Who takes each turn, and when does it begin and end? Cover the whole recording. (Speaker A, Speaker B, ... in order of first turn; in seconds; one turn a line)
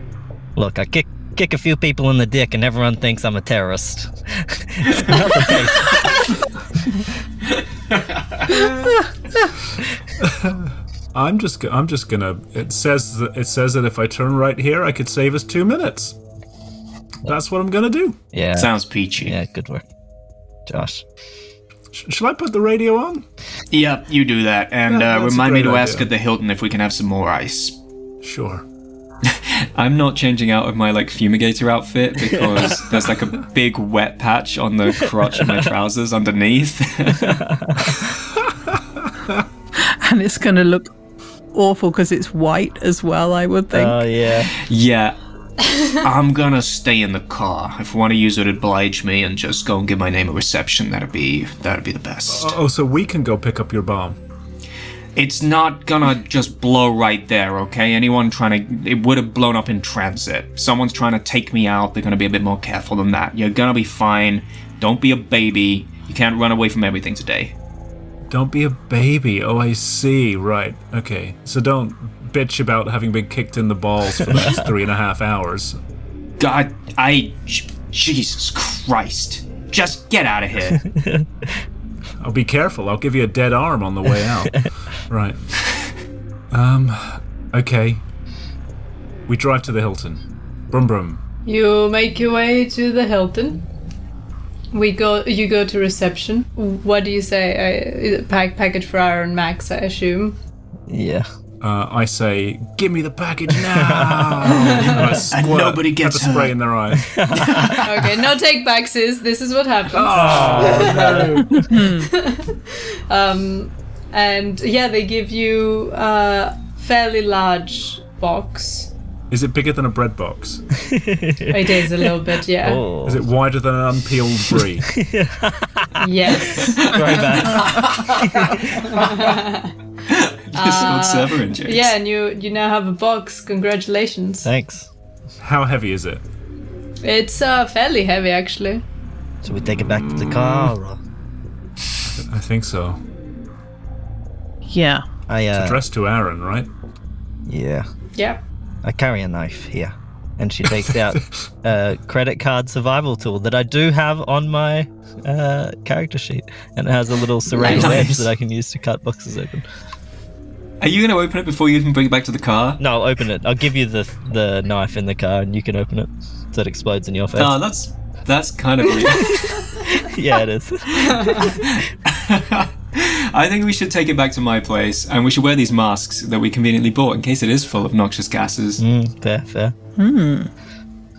Speaker A: 0.6-6.3
Speaker B: 7.9-8.7
Speaker C: 10.2-16.2
Speaker C: 17.3-18.2
Speaker A: 18.3-18.7
Speaker B: 18.6-19.4
Speaker A: 19.2-19.9
Speaker A: 20.7-21.0
Speaker C: 21.9-23.2
Speaker B: 23.7-27.8
Speaker C: 24.9-26.1
Speaker C: 28.2-28.6
Speaker B: 29.2-37.4
Speaker A: 32.3-32.8
Speaker A: 37.1-38.0
Speaker D: 40.0-40.9
Speaker D: 41.5-44.0
Speaker A: 43.7-44.5
Speaker B: 44.5-45.2
Speaker B: 45.9-52.5
Speaker C: 52.3-54.2
Speaker B: 55.2-67.5
Speaker C: 68.3-75.8
Speaker A: 74.3-74.6
Speaker B: 76.4-80.8
Speaker A: 80.7-81.5
Speaker C: 82.2-84.5
Speaker C: 85.1-85.4
Speaker C: 86.5-88.0
Speaker C: 89.3-91.2
Speaker E: 91.5-93.6
Speaker E: 94.7-100.4
Speaker A: 100.9-101.3
Speaker C: 101.6-107.1
Speaker A: 103.7-104.6
Speaker E: 104.5-105.0
Speaker B: 104.9-106.6
Speaker A: 107.0-107.8
Speaker E: 107.8-118.9
Speaker C: 109.9-111.7
Speaker A: 110.1-111.7
Speaker D: 111.7-112.1
Speaker C: 119.3-120.6
Speaker A: 120.9-123.2
Speaker E: 121.5-122.8
Speaker C: 123.0-124.9
Speaker A: 125.0-129.1
Speaker E: 126.0-126.9
Speaker B: 126.7-128.6
Speaker E: 127.8-129.8
Speaker B: 130.1-131.9
Speaker E: 130.6-134.5
Speaker A: 134.4-134.9
Speaker C: 135.4-136.2
Speaker E: 137.0-138.8
Speaker A: 139.4-141.0
Speaker C: 142.1-143.0
Speaker D: 144.7-145.0
Speaker A: 145.3-145.8
Speaker C: 145.5-146.7
Speaker A: 147.5-147.9
Speaker E: 148.2-148.4
Speaker A: 148.8-159.7
Speaker C: 150.9-151.2
Speaker B: 157.5-158.3
Speaker E: 157.6-158.0
Speaker B: 160.8-162.8
Speaker A: 162.8-167.6
Speaker B: 167.4-169.5
Speaker A: 169.8-171.7
Speaker E: 171.1-171.5
Speaker B: 171.4-178.8
Speaker A: 178.8-179.8
Speaker D: 180.0-180.5